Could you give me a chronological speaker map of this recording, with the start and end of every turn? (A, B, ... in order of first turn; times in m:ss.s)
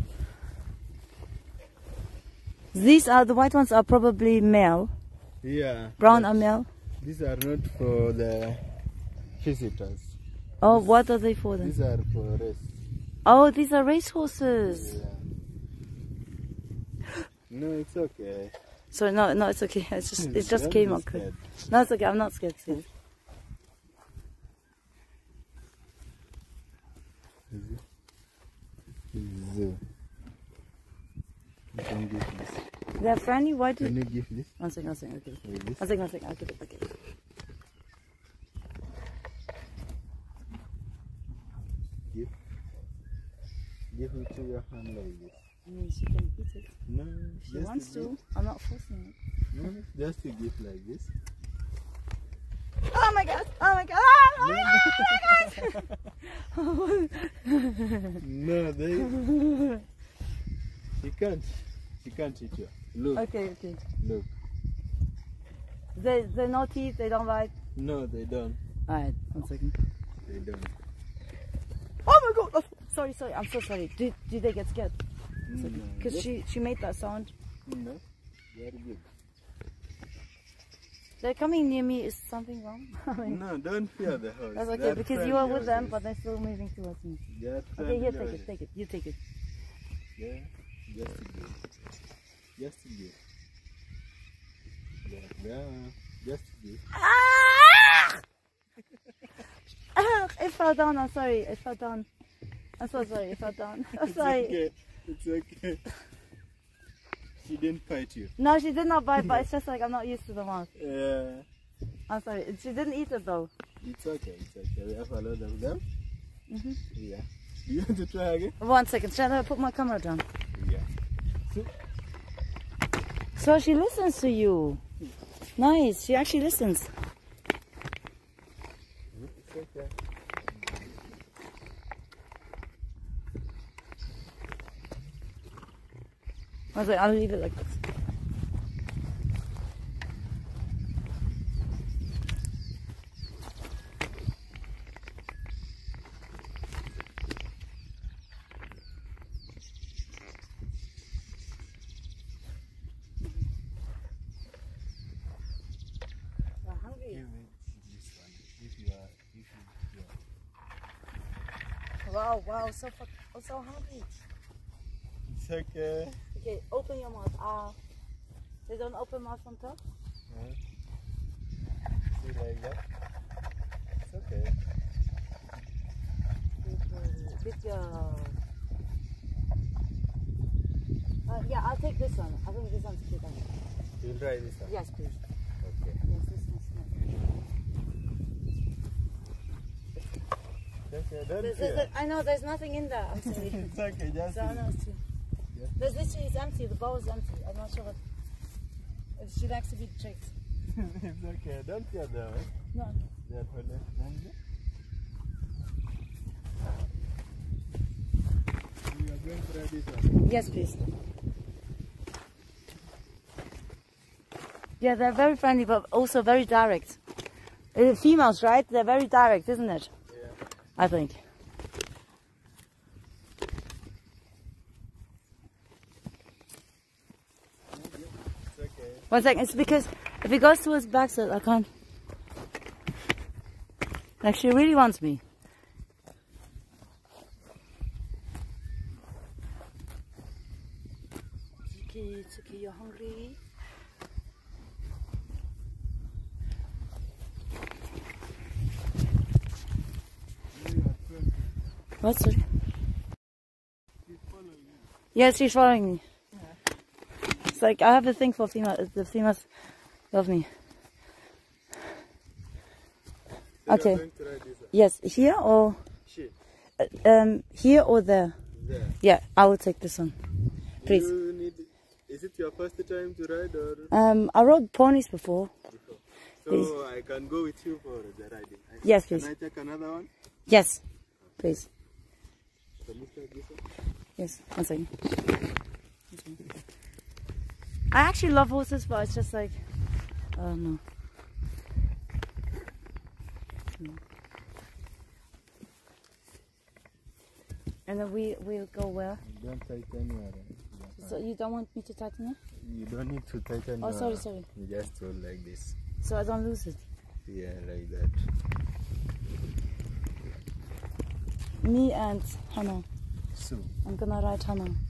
0:02.7-0:04.9 A
0:05.4-0:06.3 B
0:06.0-0:06.7 A
0:07.0-0:08.6 B
0:09.4-0:10.9 B
0:10.6-0:11.7 A
0:11.6-0:12.7 B
0:13.2-0:14.9 A
0:14.7-0:15.3 B
0:17.5-0:18.5 B
0:18.9-0:22.8 A
0:20.2-0:21.4 B
0:27.5-0:27.8 B
0:29.1-0:29.8 B
0:31.7-0:32.6 B
0:33.0-0:34.0 A
0:33.8-0:34.5 B
0:34.6-0:36.9 A
0:35.4-0:35.8 B
0:43.9-0:45.4 B
0:45.6-0:46.7 A
0:46.9-0:48.1 B
0:47.4-0:49.2 A
0:49.5-0:51.1 B
0:52.9-0:58.2 A
0:54.4-0:55.9 B
0:58.2-0:59.2 B
0:59.1-0:59.8 A
1:01.0-1:03.2 B
1:03.1-1:03.8 A
1:04.0-1:04.3 B
1:05.9-1:07.5 A
1:07.8-1:08.6 B
1:08.9-1:09.7 A
1:10.2-1:10.7 B
1:12.0-1:14.9 A
1:15.4-1:16.3 B
1:15.6-1:17.3 A
1:17.6-1:18.0 B
1:18.5-1:19.0 B
1:21.2-1:23.4 A
1:23.2-1:26.0 B
1:24.5-1:27.2 A
1:27.3-1:28.5 B
1:27.8-1:29.2 A
1:30.2-1:31.6 B
1:32.6-1:33.2 B
1:35.0-1:36.8 B
1:36.9-1:38.2 A
1:39.9-1:42.1 A
1:42.8-1:44.5 A
1:44.0-1:45.9 B
1:47.4-1:48.3 B
1:48.4-1:50.7 A
1:49.2-1:49.4 B
1:50.7-1:51.4 B
1:52.1-1:53.5 A
1:53.8-1:55.8 B
1:56.5-1:56.8 A
1:56.9-1:58.6 B
1:58.6-2:00.2 A
2:00.5-2:00.9 B
2:01.5-2:01.7 B
2:03.4-2:04.8 A
2:05.6-2:06.9 A
2:09.1-2:10.9 B
2:16.7-2:17.8 A
2:33.2-2:33.4 A
2:36.6-2:37.2 A
2:37.1-2:40.1 B
2:42.0-2:44.2 A
2:45.3-2:46.2 B
2:46.3-2:47.8 A
2:48.7-2:49.8 A
2:50.3-2:50.6 B
2:52.1-2:52.8 B
2:54.0-2:54.6 B
2:56.6-2:58.4 A
3:01.2-3:03.4 A
3:04.0-3:04.7 B
3:04.6-3:05.2 A
3:05.6-3:06.0 B
3:06.0-3:06.9 A
3:10.9-3:11.9 B
3:11.4-3:13.7 A
3:13.2-3:14.7 B
3:14.3-3:15.0 A
3:15.5-3:15.8 B
3:15.8-3:18.0 A
3:19.2-3:20.3 A
3:20.7-3:22.5 B
3:22.7-3:23.1 A
3:23.2-3:24.3 B
3:28.9-3:30.2 B
3:30.2-3:30.9 A
3:34.8-3:37.0 A
3:37.7-3:39.9 A
3:40.1-3:40.4 B
3:40.8-3:41.2 A
3:48.5-3:49.1 B
3:49.1-3:51.7 A
3:54.2-3:55.2 A
4:01.7-4:03.4 A
4:10.5-4:11.5 B
4:12.0-4:12.4 A
4:14.1-4:14.9 B
4:15.1-4:16.0 A
4:17.4-4:20.5 A
4:23.6-4:24.7 B
4:23.7-4:24.0 A
4:24.7-4:25.8 A
4:26.0-4:26.3 B
4:26.8-4:28.4 A
4:28.5-4:29.0 B
4:29.0-4:30.2 A
4:30.8-4:33.9 B
4:33.9-4:35.5 A
4:35.7-4:40.1 B
4:38.8-4:39.3 A
4:40.5-4:40.8 A
4:41.4-4:41.7 A
4:42.8-4:43.6 B
4:44.2-4:44.9 A
4:46.1-4:46.4 A
4:47.9-4:49.6 A
4:50.3-4:50.8 A
4:57.9-4:59.2 A
4:59.2-5:01.2 B
5:01.0-5:02.4 A
5:02.6-5:05.7 B
5:03.8-5:04.4 A
5:06.0-5:06.8 A
5:07.2-5:08.2 B
5:11.6-5:12.9 A
5:13.3-5:13.7 B
5:13.8-5:14.8 A